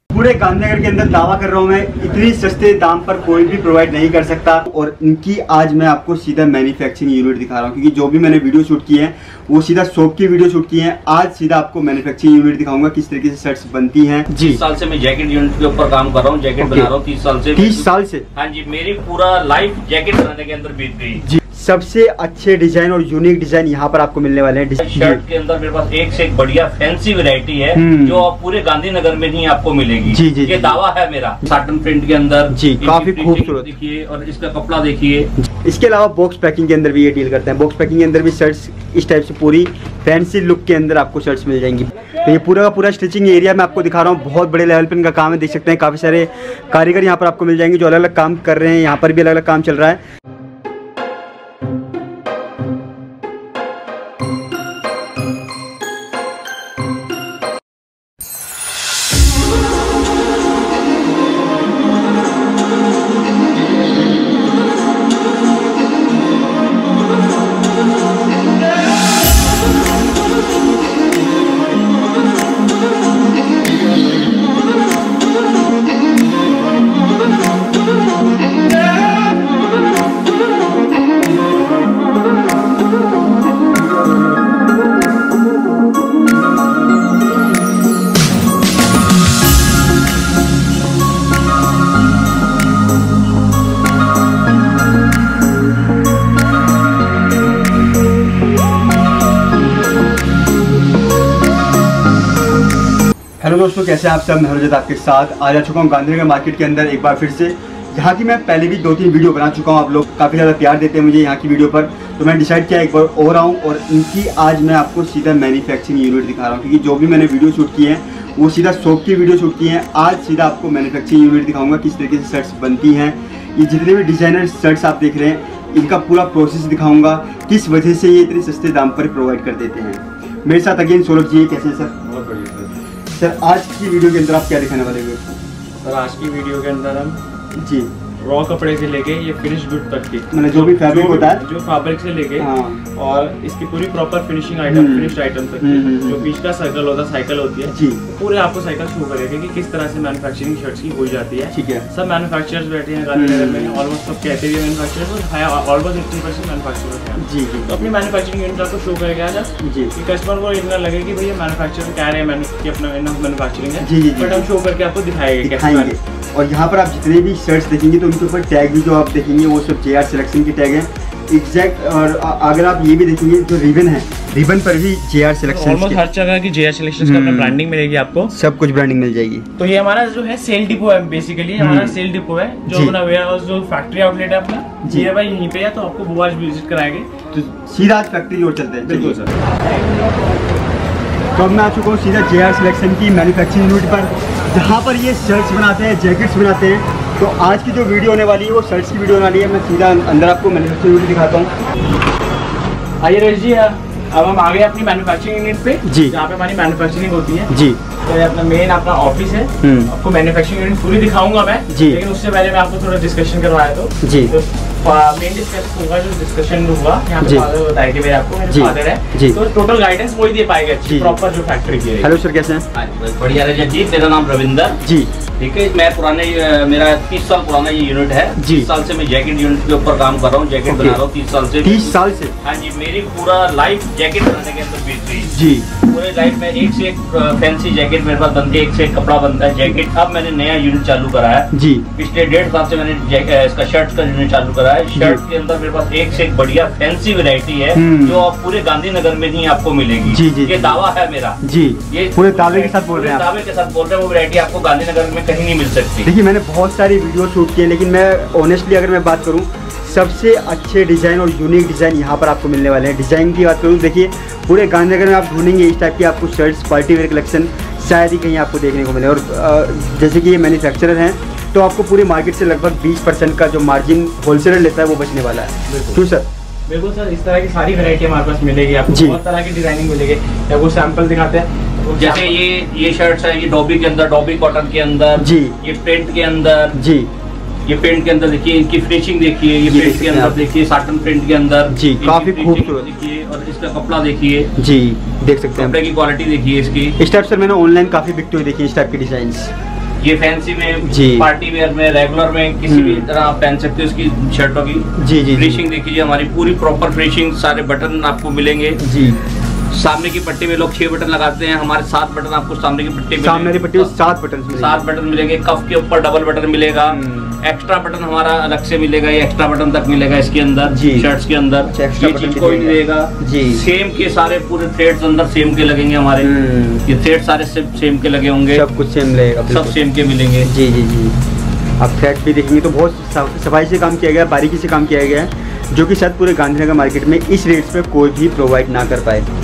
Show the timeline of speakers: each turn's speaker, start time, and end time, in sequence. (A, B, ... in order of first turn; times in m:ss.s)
0:00.1-0:14.6 A
0:14.4-0:21.2 B
0:16.6-0:16.9 A
0:17.5-0:18.2 A
0:21.2-0:25.2 A
0:24.8-0:35.3 B
0:27.7-0:28.3 A
0:30.1-0:30.8 A
0:32.5-0:33.7 A
0:35.4-0:50.0 A
1:43.4-2:11.9 A
2:12.0-2:12.7 C
2:13.1-2:15.3 A
2:15.8-2:17.2 C
2:17.5-2:17.9 A
2:18.2-2:45.9 C
2:20.3-2:21.4 A
2:22.4-2:22.8 A
2:24.7-2:26.3 A
2:27.7-2:28.0 A
2:31.5-2:31.8 A
2:33.1-2:33.8 A
2:37.2-2:37.8 A
2:39.6-2:39.9 A
2:43.8-2:44.5 A
2:45.4-2:56.0 A
2:55.5-2:58.3 C
2:57.0-2:57.6 A
2:58.3-2:59.4 A
2:59.6-3:07.1 C
3:01.6-3:02.0 A
3:02.7-3:03.0 A
3:04.8-3:05.1 A
3:07.3-3:09.2 A
3:08.8-3:09.3 C
3:11.4-3:21.5 A
3:23.0-3:27.5 C
3:25.8-3:26.2 A
3:27.5-3:27.8 A
3:28.0-3:42.1 C
3:29.6-3:29.9 A
3:31.7-3:32.0 A
3:34.0-3:34.3 A
3:37.2-3:37.5 A
3:38.5-3:39.4 A
3:40.8-3:41.2 A
3:42.0-3:42.6 A
3:42.7-3:44.8 B
3:44.8-3:45.1 A
3:45.4-3:55.3 B
3:48.4-3:48.7 A
3:50.7-3:51.0 A
3:51.6-3:52.3 A
3:55.3-3:55.7 A
3:55.8-4:11.4 B
4:01.5-4:01.8 A
4:05.0-4:05.2 A
4:07.7-4:08.2 A
4:10.1-4:10.8 A
4:11.4-4:13.2 A
4:11.9-4:16.1 B
4:16.0-4:36.3 A
4:35.7-4:36.0 C
4:36.7-4:42.4 C
4:38.9-4:39.2 A
4:42.0-4:46.8 B
4:45.2-4:45.5 A
4:46.7-4:47.1 A
4:47.6-4:54.5 B
4:49.6-4:50.4 A
4:51.7-4:52.9 A
4:54.6-4:55.8 A
4:55.6-4:57.0 B
4:57.0-4:59.5 A
5:00.0-5:08.8 B
5:00.9-5:01.3 A
5:02.7-5:03.1 A
5:05.0-5:05.6 A
5:08.8-5:09.2 A
5:09.7-5:13.9 B
5:13.2-5:14.8 A
5:14.5-5:26.3 B
5:16.9-5:17.4 A
5:20.7-5:21.1 A
5:21.6-5:23.6 A
5:26.2-5:26.8 A
5:26.8-5:28.6 B
5:28.5-5:29.8 A
5:29.5-5:30.5 B
5:30.4-5:31.1 A
5:31.8-5:39.2 A